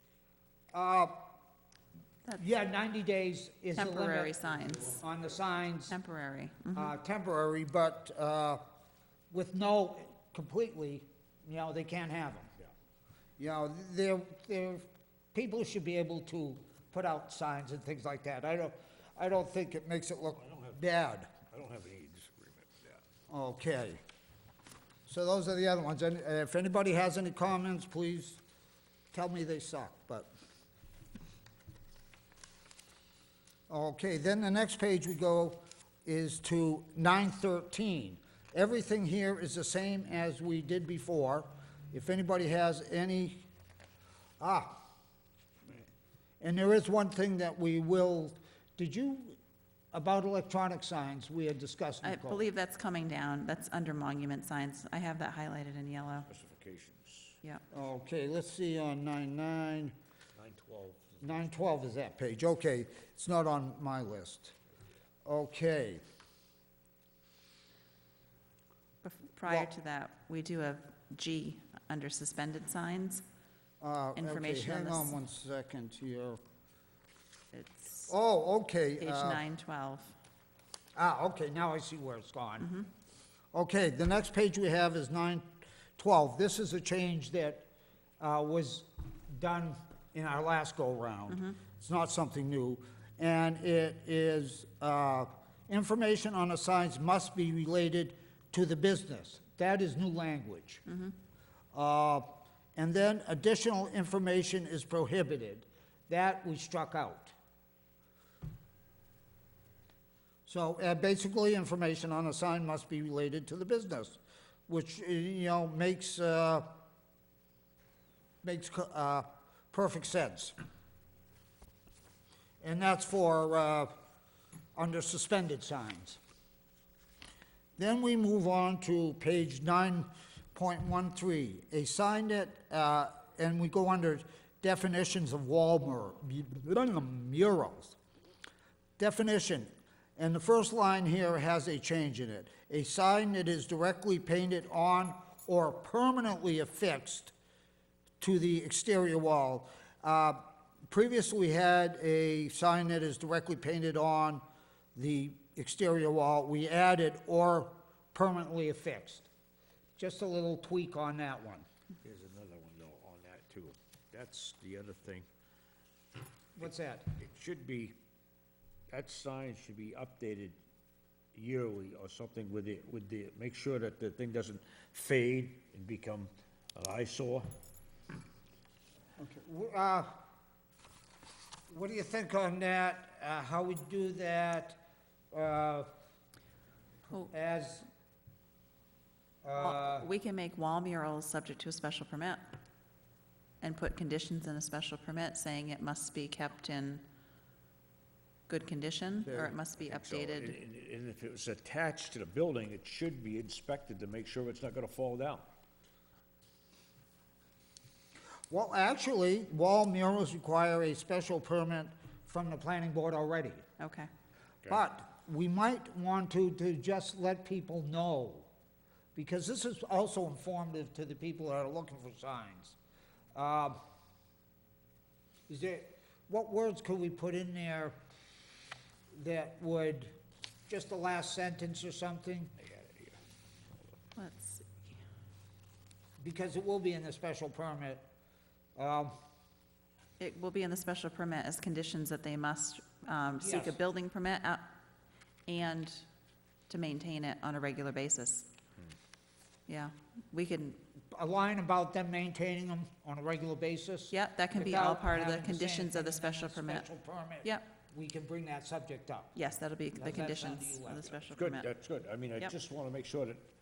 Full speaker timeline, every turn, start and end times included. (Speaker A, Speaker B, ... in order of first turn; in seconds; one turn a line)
Speaker A: 0.7-1.2
Speaker A: 2.4-4.4
Speaker B: 3.7-5.0
Speaker A: 4.9-6.0
Speaker B: 5.9-6.9
Speaker A: 6.7-8.6
Speaker A: 9.3-12.5
Speaker A: 13.4-21.3
Speaker C: 20.4-20.8
Speaker C: 21.5-23.0
Speaker A: 23.3-24.0
Speaker A: 25.1-28.4
Speaker A: 29.1-30.3
Speaker A: 33.7-43.4
Speaker A: 44.4-44.8
Speaker A: 46.4-49.4
Speaker A: 49.9-52.5
Speaker B: 52.0-56.3
Speaker C: 56.3-57.4
Speaker A: 57.7-59.9
Speaker C: 60.4-61.2
Speaker A: 61.2-64.5
Speaker A: 65.2-66.0
Speaker B: 69.0-73.2
Speaker A: 69.5-69.7
Speaker A: 73.8-76.4
Speaker B: 74.2-75.1
Speaker B: 77.5-78.1
Speaker A: 78.1-79.4
Speaker B: 79.0-80.2
Speaker A: 80.9-82.8
Speaker B: 82.6-82.9
Speaker A: 83.5-87.7
Speaker A: 88.2-100.8
Speaker A: 101.7-107.3
Speaker A: 110.5-116.7
Speaker A: 118.4-120.5
Speaker A: 122.6-123.9
Speaker A: 124.8-126.2
Speaker A: 127.8-137.9
Speaker A: 139.0-147.3
Speaker A: 148.2-154.4
Speaker A: 154.9-159.3
Speaker A: 159.9-161.7
Speaker C: 162.0-165.2
Speaker A: 166.6-167.1
Speaker C: 167.1-167.9
Speaker C: 168.9-170.6
Speaker C: 171.3-177.5
Speaker A: 179.2-180.2
Speaker A: 181.7-184.8
Speaker A: 185.3-185.9
Speaker A: 187.1-187.8
Speaker A: 189.4-190.1
Speaker B: 189.6-192.4
Speaker B: 193.6-197.0
Speaker B: 198.5-200.6
Speaker A: 199.2-199.5
Speaker C: 199.8-205.5
Speaker A: 208.5-213.6
Speaker B: 213.8-214.1
Speaker A: 214.7-218.5
Speaker A: 219.1-222.8
Speaker A: 223.3-223.8
Speaker A: 225.5-227.9
Speaker A: 229.1-230.1
Speaker A: 230.7-232.5
Speaker C: 232.8-233.1
Speaker B: 234.2-234.9
Speaker A: 236.2-238.0
Speaker A: 238.8-239.1
Speaker B: 240.2-244.7
Speaker A: 243.4-243.8
Speaker B: 245.5-246.0
Speaker B: 246.7-248.5
Speaker B: 249.7-250.8
Speaker A: 251.1-259.3
Speaker B: 254.1-256.9
Speaker B: 259.3-261.7
Speaker A: 260.0-261.1
Speaker C: 261.3-263.4